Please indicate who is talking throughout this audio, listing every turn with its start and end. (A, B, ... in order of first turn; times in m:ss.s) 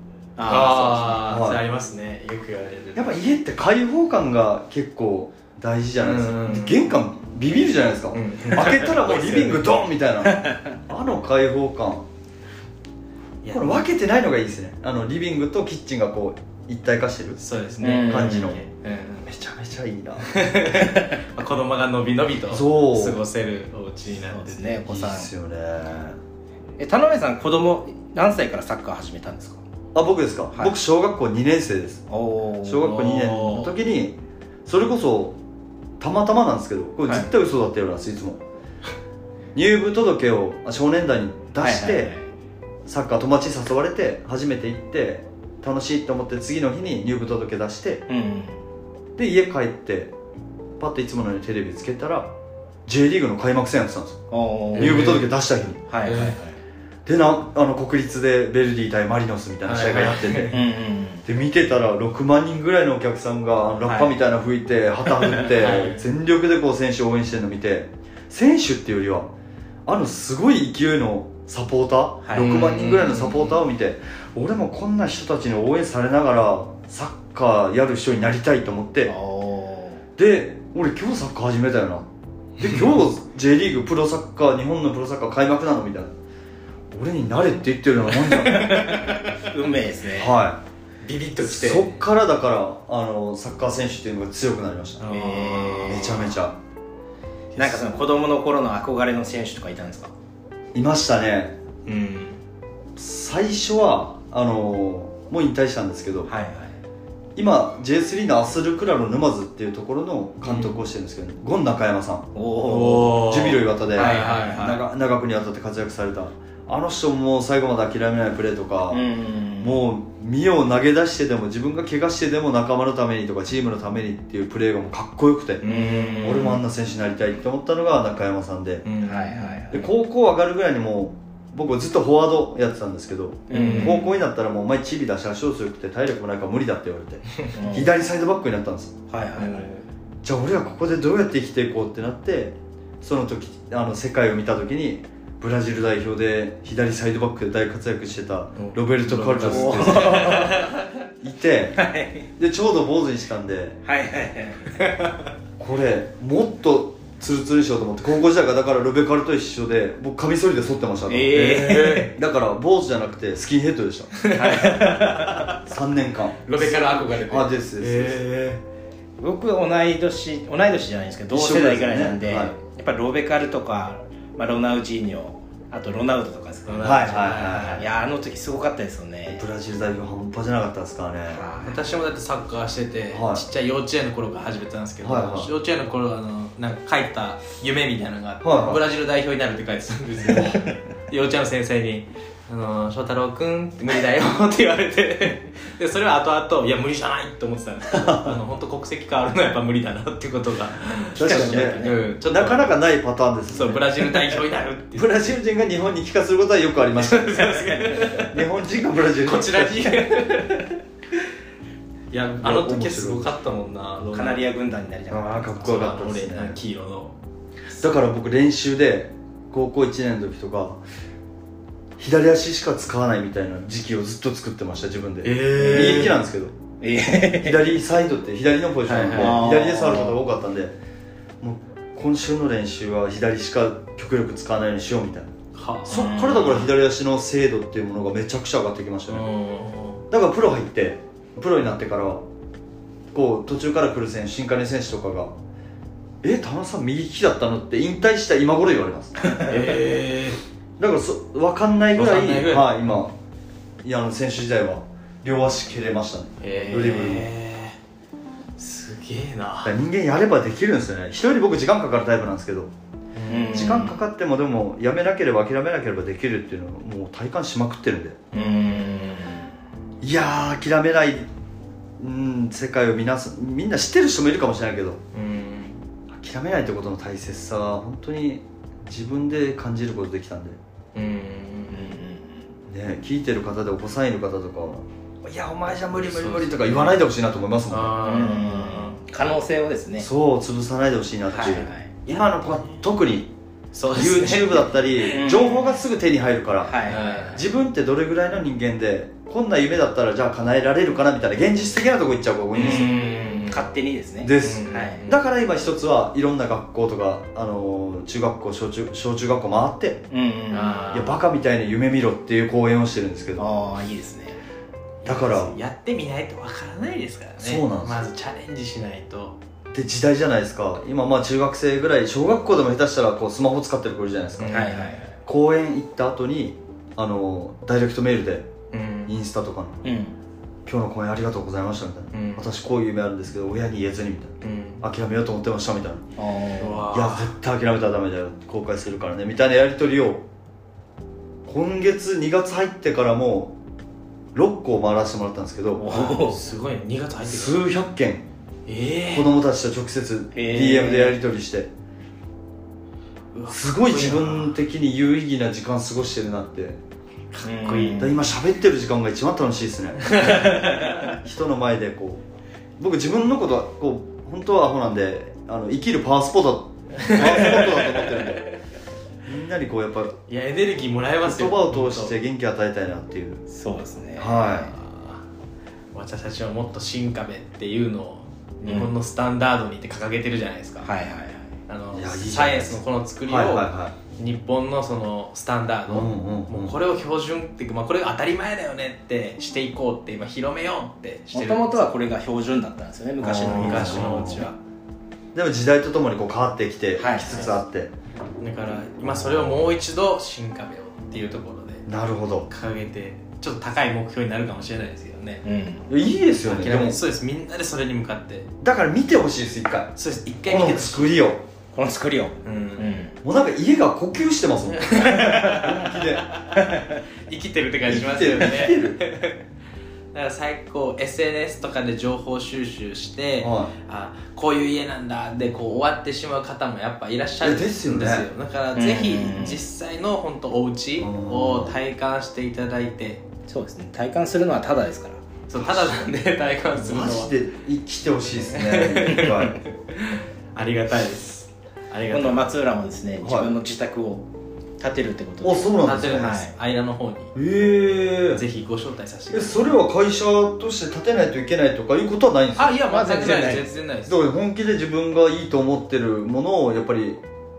0:00.4-0:01.3 A
0:00.5-0:03.2 B
0:01.3-0:01.6 C
0:03.0-0:12.1 C
0:06.0-0:06.9 B
0:08.1-0:09.9 B
0:10.3-0:10.7 A
0:13.4-0:13.8 B
0:13.5-0:17.4 C
0:17.4-0:19.3 B
0:17.8-0:18.6 A
0:18.0-0:18.6 C
0:19.2-0:20.4 C
0:20.2-0:24.8 B
0:22.5-0:23.2 C
0:24.2-0:25.3 A
0:24.9-0:26.2 C
0:26.8-0:29.6 A
0:29.9-0:32.0 C
0:32.1-0:33.0 A
0:32.6-0:35.4 C
0:32.8-0:33.7 B
0:36.0-0:38.4 C
0:39.6-0:42.1 C
0:41.6-0:42.3 A
0:42.9-0:48.0 C
0:48.1-0:48.6 A
0:49.2-0:50.1 C
0:50.8-0:52.3 C
0:52.9-0:54.2 C
0:54.3-0:55.2 A
0:54.8-0:55.3 B
0:54.8-0:55.8 C
0:55.9-0:56.6 A
0:56.0-0:56.4 B
0:57.1-1:00.6 C
0:59.6-1:00.6 B
1:00.5-1:01.2 A
1:01.2-1:09.3 C
1:03.8-1:04.2 A
1:05.4-1:06.0 B
1:09.9-1:19.1 C
1:12.3-1:12.7 A
1:12.3-1:13.6 B
1:19.1-1:20.0 A
1:20.2-1:26.1 C
1:26.9-1:28.9 C
1:28.3-1:29.2 B
1:28.4-1:30.3 A
1:30.2-1:30.6 C
1:31.0-1:32.0 B
1:31.4-1:35.1 C
1:35.0-1:36.4 B
1:35.1-1:36.3 A
1:35.9-1:36.6 C
1:37.5-1:37.9 B
1:37.6-1:40.1 A
1:40.7-1:41.6 C
1:41.9-1:42.4 B
1:43.0-1:46.3 C
1:46.3-1:46.8 A
1:47.4-1:52.4 C
1:50.4-1:50.8 B
1:52.4-1:53.3 A
1:52.6-1:54.8 B
1:53.0-1:59.0 C
1:54.0-1:54.8 A
1:58.9-1:59.8 A
1:59.6-2:08.9 C
2:05.6-2:06.6 B
2:05.6-2:06.5 A
2:08.8-2:09.7 B
2:09.0-2:09.9 A
2:09.7-2:19.0 C
2:13.5-2:14.1 A
2:13.5-2:14.1 B
2:17.5-2:17.9 A
2:19.1-2:19.8 A
2:19.4-2:19.7 B
2:20.2-2:30.6 C
2:28.6-2:30.9 B
2:29.4-2:30.7 A
2:31.2-2:33.8 C
2:31.8-2:32.3 A
2:33.8-2:34.8 A
2:34.8-2:35.1 B
2:35.6-2:44.2 C
2:41.1-2:42.1 A
2:41.3-2:42.2 B
2:44.2-2:45.6 B
2:44.3-2:45.5 A
2:45.6-2:48.6 C
2:46.5-2:48.5 B
2:49.2-2:59.4 A
2:51.3-2:52.5 C
2:56.7-2:57.8 B
2:56.8-2:57.9 C
2:59.3-3:01.4 C
3:01.3-3:01.8 A
3:01.6-3:22.8 B
3:03.1-3:03.4 C
3:05.0-3:05.5 C
3:08.4-3:08.8 C
3:10.3-3:10.6 C
3:17.9-3:18.4 C
3:21.2-3:22.0 A
3:21.2-3:24.1 C
3:23.5-3:25.3 B
3:25.0-3:30.1 C
3:27.0-3:28.5 B
3:29.2-3:30.8 B
3:32.1-3:34.5 B
3:32.4-3:33.3 C
3:34.0-3:35.7 A
3:35.1-3:36.6 C
3:35.6-3:37.2 B
3:37.8-3:40.8 C
3:42.0-3:46.6 C
3:45.2-3:46.2 B
3:45.6-3:46.1 A
3:46.8-3:47.6 A
3:47.4-3:50.8 C
3:48.9-3:49.5 B
3:49.2-3:50.2 A
3:51.4-3:55.3 C
3:55.6-3:56.7 B
3:55.9-3:59.3 C
3:55.9-3:56.6 A
3:59.1-4:00.0 B
4:00.1-4:02.2 C
4:03.1-4:05.4 C
4:06.2-4:09.2 C
4:09.4-4:10.4 B
4:10.8-4:13.2 C
4:11.9-4:12.7 B
4:13.8-4:17.3 C
4:16.4-4:17.8 B
4:18.6-4:19.8 B
4:19.6-4:22.7 C
4:23.2-4:23.7 B
4:23.3-4:24.0 A
4:23.5-4:28.2 C
4:28.3-4:29.5 A
4:30.0-4:31.3 C
4:32.0-4:35.0 C
4:35.1-4:35.8 B
4:36.1-4:40.6 C
4:41.0-4:41.8 B
4:41.7-4:42.5 A
4:42.7-4:48.0 C
4:46.0-4:47.0 B
4:47.7-4:49.0 B
4:48.0-4:50.1 A
4:50.0-4:53.3 C
4:51.3-4:51.9 A
4:53.7-4:54.7 B
4:53.9-5:03.0 C
4:55.0-4:55.8 A
4:56.6-4:57.4 A
4:56.9-4:57.4 B
5:02.5-5:03.7 B
5:02.6-5:05.0 A
5:04.2-5:10.0 C
5:04.4-5:05.2 B
5:10.1-5:10.9 A
5:10.5-5:11.2 B
5:10.9-5:13.4 C
5:13.4-5:14.4 A
5:15.0-5:19.4 B
5:15.0-5:15.6 C
5:17.4-5:18.0 C
5:19.7-5:24.7 C
5:24.4-5:25.0 B
5:24.5-5:25.1 A
5:25.2-5:28.5 C
5:28.7-5:29.1 B
5:29.1-5:29.8 C
5:29.8-5:30.2 A
5:30.7-5:36.1 C
5:32.1-5:32.5 B
5:34.4-5:34.8 B
5:36.2-5:36.9 A
5:36.6-5:37.3 B
5:36.9-5:40.3 C
5:41.4-5:43.6 C
5:44.3-5:45.9 C
5:45.8-5:46.4 A
5:45.9-5:47.6 B
5:47.2-5:48.3 C
5:48.7-5:49.3 B
5:49.1-5:51.7 C
5:50.3-5:51.2 A
5:53.3-5:54.6 B
5:53.5-5:56.8 C
5:57.3-5:58.2 B
5:57.4-5:58.2 A
5:58.0-6:02.2 C
6:00.0-6:01.2 B
6:02.8-6:08.5 C
6:07.0-6:08.3 B
6:09.2-6:10.2 C
6:10.3-6:12.1 B
6:11.2-6:13.4 C
6:13.5-6:14.7 A
6:14.2-6:14.7 C
6:14.7-6:15.2 B
6:15.9-6:20.9 B
6:18.6-6:18.9 A
6:20.8-6:21.5 A
6:21.7-6:31.8 B
6:21.9-6:24.0 C
6:25.9-6:26.8 C
6:31.3-6:34.4 A
6:33.2-6:34.5 C
6:33.4-6:34.6 B
6:35.3-6:37.9 C
6:37.0-6:37.5 A
6:38.4-6:41.9 B
6:41.9-6:42.5 C
6:42.5-6:45.4 B
6:45.4-6:45.9 A
6:45.9-6:47.0 C
6:46.4-6:48.5 B
6:48.6-6:49.9 C
6:50.0-6:51.2 B
6:50.5-6:51.4 C
6:51.7-6:53.2 A
6:52.4-6:52.9 B
6:53.2-6:56.3 C
6:54.7-6:59.4 B
6:55.2-6:55.6 A
6:56.6-6:57.0 A
6:57.9-6:59.0 C
7:00.1-7:13.2 B
7:03.4-7:03.7 C
7:07.4-7:08.3 C
7:08.8-7:09.6 A
7:11.0-7:11.8 C
7:13.5-7:15.2 A
7:15.5-7:17.3 B
7:15.6-7:16.1 C
7:16.7-7:19.6 C
7:18.5-7:22.6 B
7:22.1-7:24.3 A
7:23.2-7:23.5 C
7:24.8-7:26.5 A
7:25.4-7:26.4 C
7:25.8-7:27.4 B
7:27.4-7:28.4 C
7:28.4-7:29.8 B
7:29.3-7:32.8 C
7:32.6-7:34.2 B
7:32.8-7:33.7 A
7:34.1-7:37.2 C